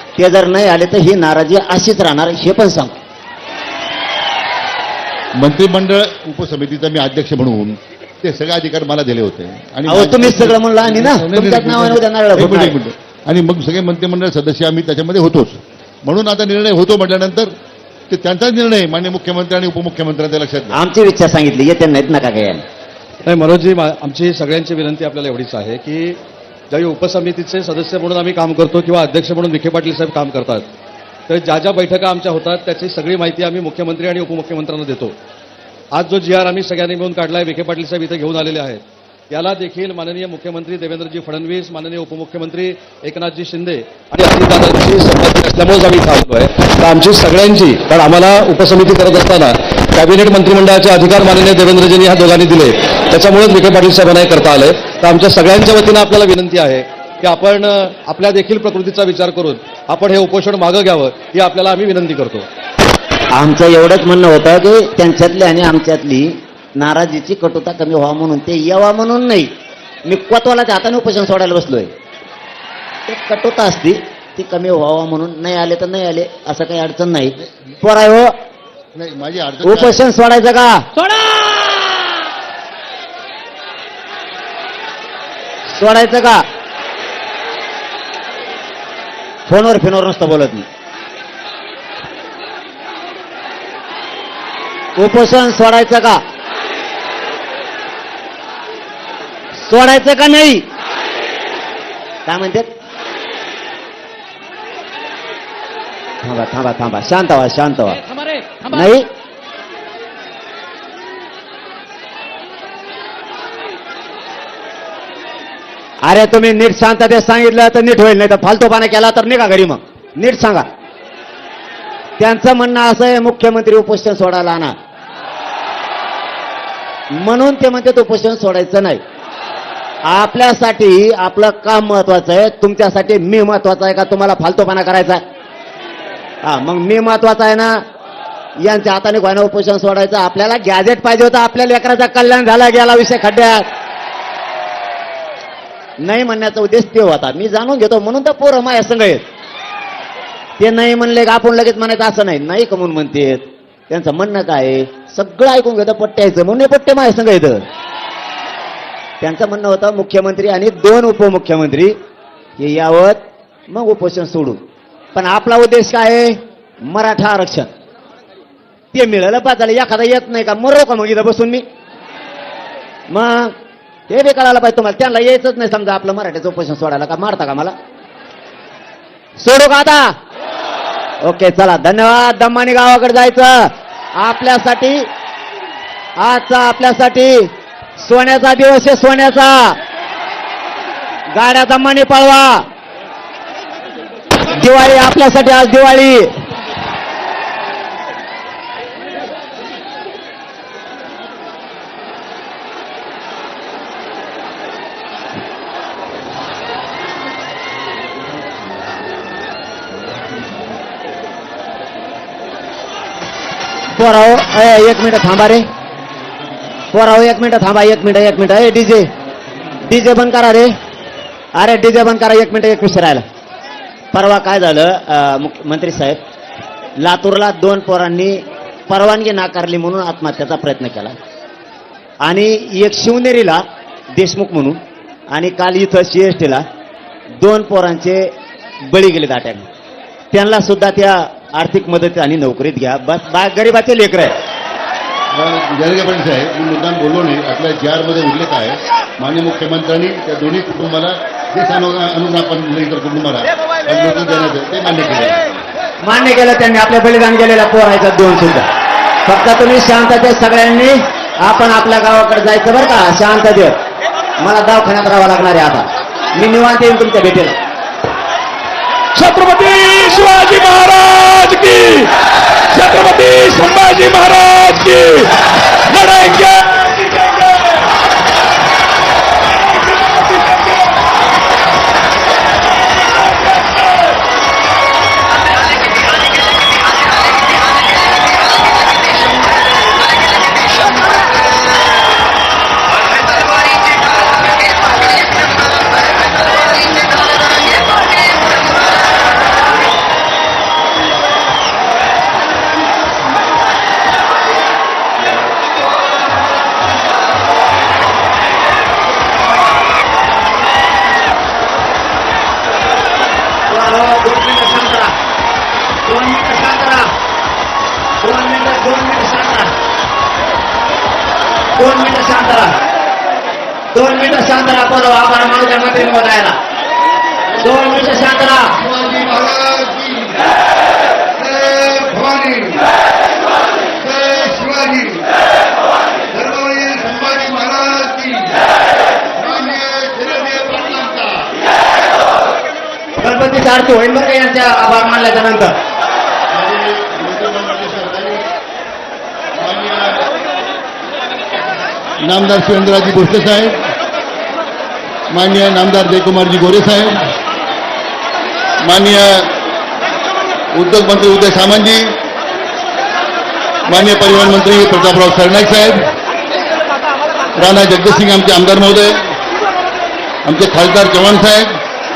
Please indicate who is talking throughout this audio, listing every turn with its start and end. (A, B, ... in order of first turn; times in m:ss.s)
0:00.2-0:03.0 A
0:05.4-0:17.5 B
0:09.9-0:12.8 A
0:18.1-0:20.8 B
0:20.7-0:22.6 A
0:23.3-0:26.2 C
0:26.7-0:30.7 C
0:31.3-0:35.2 C
0:35.9-1:02.5 C
1:03.3-1:09.5 A
1:10.1-1:11.9 A
1:13.1-1:18.4 A
1:19.0-1:20.1 B
1:19.6-1:20.9 A
1:21.0-1:22.2 D
1:25.7-1:26.5 A
1:29.5-1:30.7 A
1:35.0-1:36.2 A
1:39.5-1:40.7 A
1:42.3-1:42.7 A
1:46.2-1:48.0 A
1:47.9-1:48.9 D
1:48.7-1:49.1 A
1:56.0-2:00.7 A
2:02.2-2:04.8 A
2:07.1-2:09.0 A
2:10.0-2:15.2 A
2:16.4-2:17.8 A
2:18.6-2:23.7 A
2:26.0-2:29.3 A
2:30.6-2:37.6 A
2:39.2-2:42.0 A
2:42.6-2:44.6 A
2:45.1-2:47.7 A
2:48.9-2:51.7 A
2:53.1-2:53.6 A
2:54.1-2:57.8 A
2:59.4-3:00.2 A
3:01.2-3:05.1 A
3:06.2-3:09.8 A
3:11.3-3:12.7 A
3:14.4-3:16.4 A
3:33.9-3:35.7 A
3:36.9-3:39.1 A
3:39.8-3:40.8 A
3:41.6-3:43.2 A
3:44.1-3:46.2 A
3:47.0-3:51.2 A
3:52.2-3:56.7 A
3:57.4-3:59.7 A
4:00.3-4:04.4 A
4:05.3-4:15.6 B
4:16.0-4:18.7 A
4:19.3-4:23.8 A
4:24.4-4:27.6 A
4:29.2-4:32.2 D
4:32.7-4:37.9 D
4:39.4-4:41.0 D
4:42.9-4:44.2 D
5:13.7-5:15.2 A
5:16.1-5:17.1 A
5:18.2-5:19.7 A
5:21.8-5:22.8 A
5:23.9-5:26.6 A
5:27.5-5:30.5 B
5:27.6-5:28.8 A
5:31.3-5:32.9 B
5:34.0-5:35.3 B
5:36.3-5:38.7 B
5:39.3-5:41.6 B
5:43.2-5:45.8 A
5:46.5-5:48.5 B
5:49.6-5:50.3 B
5:52.2-5:53.9 B
5:55.3-5:57.3 B
5:58.8-5:59.6 B
6:00.7-6:02.2 B
6:03.8-6:06.1 B
6:07.6-6:09.4 B
6:10.4-6:11.8 B